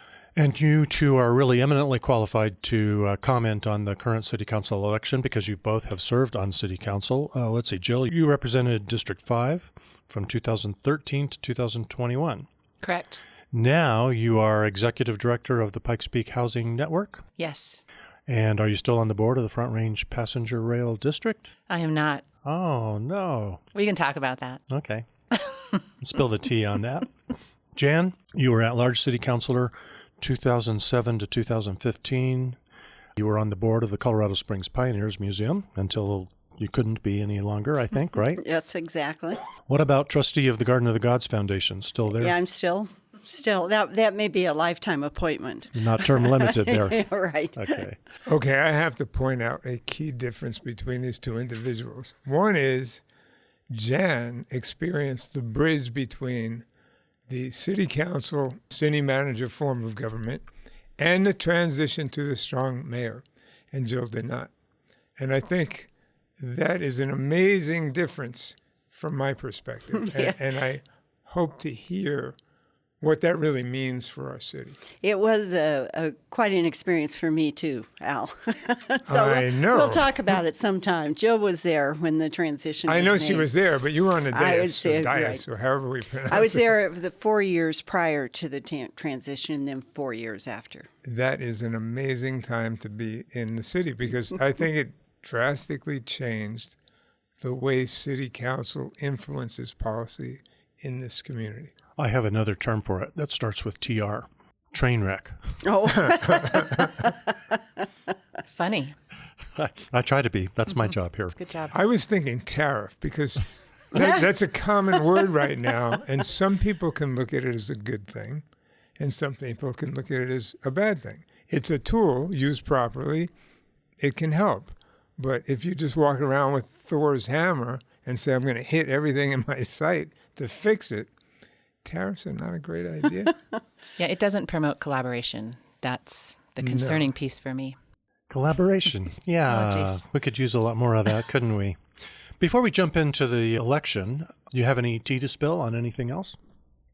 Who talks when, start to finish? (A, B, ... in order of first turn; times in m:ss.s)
0:00.4-0:12.5 A
0:12.8-0:13.2 B
0:13.5-0:17.2 A
0:17.4-0:17.8 B
0:18.3-0:21.5 A
0:21.7-0:22.2 B
0:22.4-0:23.6 A
0:23.7-0:24.6 B
0:24.7-0:25.1 A
0:26.0-0:27.1 A
0:27.7-0:32.6 A
0:33.2-0:38.4 A
0:38.4-0:39.4 C
0:39.6-0:42.4 A
0:42.2-0:47.8 C
0:45.7-0:48.0 A
0:48.2-0:53.0 D
0:53.7-0:56.6 D
0:57.3-1:00.4 D
1:01.0-1:04.5 D
1:05.2-1:12.4 D
1:10.0-1:10.4 C
1:13.0-1:14.8 D
1:15.0-1:23.5 C
1:19.1-1:20.4 D
1:22.8-1:26.7 D
1:24.3-1:25.4 C
1:26.3-1:30.9 C
1:31.0-1:36.8 D
1:37.4-1:41.7 D
1:42.0-1:45.4 A
1:45.6-1:47.3 C
1:46.5-1:46.9 D
1:48.5-1:48.9 B
1:49.5-1:51.4 A
1:51.4-1:51.7 B
1:51.7-1:58.4 D
1:59.0-2:03.3 D
2:04.0-2:11.1 D
2:11.8-2:13.4 D
2:14.0-2:17.8 B
2:16.6-2:17.1 D
2:18.3-2:21.8 A
2:19.5-2:20.0 B
2:22.4-2:26.4 A